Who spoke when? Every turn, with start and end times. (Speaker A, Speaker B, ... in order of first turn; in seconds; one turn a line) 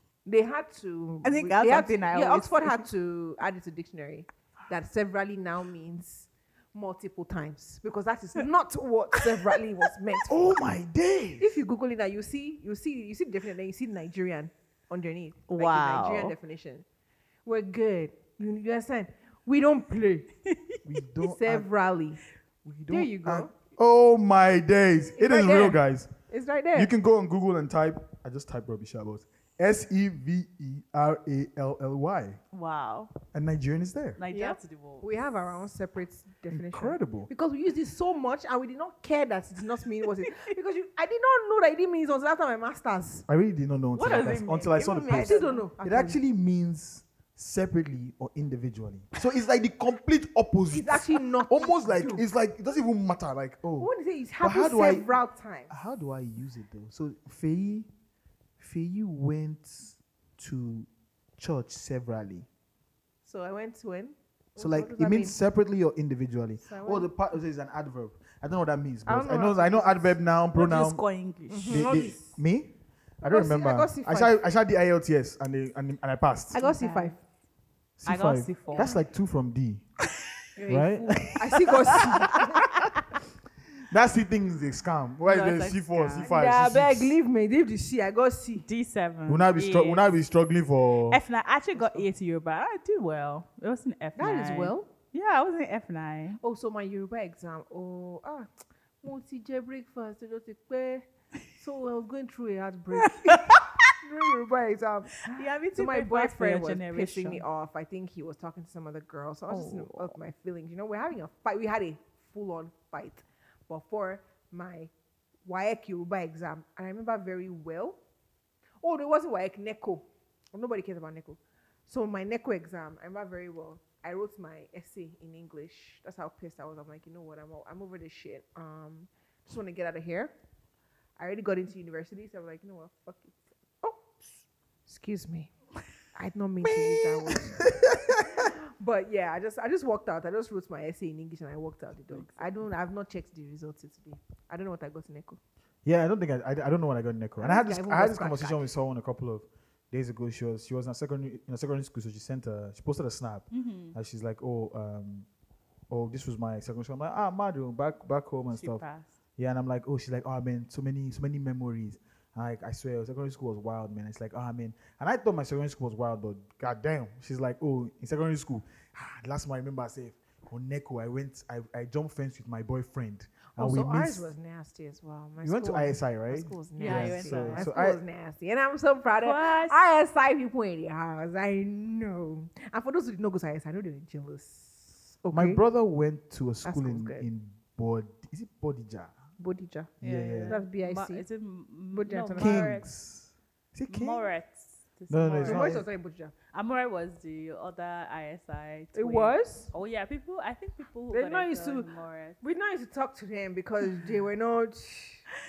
Speaker A: 0.2-10.3
Speaker B: 1.2-2.9
Speaker C: 10.3-11.6
Speaker A: 11.4-16.9
Speaker B: 15.5-16.4
Speaker A: 17.4-20.3
Speaker B: 20.5-20.8
Speaker C: 20.9-21.7
Speaker A: 21.2-22.2
Speaker C: 22.6-26.1
Speaker A: 22.9-23.5
Speaker A: 25.2-26.9
Speaker C: 26.7-32.4
Speaker B: 32.5-33.1
Speaker C: 33.3-34.2
Speaker B: 34.2-35.1
Speaker A: 34.3-43.3
Speaker C: 36.5-37.3
Speaker C: 43.3-55.1
Speaker B: 44.0-45.7
Speaker A: 45.1-46.2
Speaker A: 50.7-52.2
Speaker A: 53.8-55.7
Speaker C: 55.7-57.9
Speaker C: 58.6-62.5
Speaker A: 63.2-65.4
Speaker C: 64.6-71.0
Speaker A: 66.6-67.1
Speaker A: 69.1-70.2
Speaker B: 70.5-72.1
Speaker A: 71.5-72.4
Speaker C: 71.7-76.6
Speaker A: 73.3-74.4
Speaker A: 76.5-77.2
Speaker B: 76.5-77.2
Speaker C: 78.0-79.8
Speaker B: 78.1-78.9
Speaker A: 78.8-79.0
Speaker A: 80.6-82.8
Speaker C: 80.7-82.9
Speaker C: 83.9-87.2
Speaker B: 85.3-86.3
Speaker A: 86.2-88.7
Speaker B: 88.7-90.1
Speaker C: 89.3-91.2
Speaker B: 91.1-96.4
Speaker A: 91.8-92.0
Speaker A: 94.2-94.9
Speaker A: 96.4-98.5
Speaker A: 99.0-114.9
Speaker B: 103.0-103.8
Speaker B: 105.3-107.4
Speaker B: 109.5-110.1
Speaker A: 115.5-118.0
Speaker A: 118.8-130.3
Speaker A: 131.2-134.3
Speaker A: 134.9-135.5
Speaker A: 136.1-145.4
Speaker C: 136.7-138.5
Speaker C: 145.8-155.3
Speaker A: 147.4-148.7
Speaker B: 153.5-153.9
Speaker C: 155.9-158.8
Speaker B: 158.5-159.1
Speaker C: 159.4-174.3
Speaker A: 173.5-185.6
Speaker C: 175.4-178.0
Speaker B: 176.8-177.7
Speaker B: 179.2-179.8
Speaker C: 185.3-189.1
Speaker A: 186.6-187.3
Speaker A: 189.4-191.2
Speaker C: 190.0-190.6
Speaker B: 190.0-192.9
Speaker A: 191.9-192.8
Speaker C: 192.4-194.3
Speaker B: 193.9-195.8
Speaker C: 195.1-195.8
Speaker A: 195.4-196.3
Speaker B: 196.5-202.4
Speaker A: 198.9-199.7
Speaker A: 201.1-205.2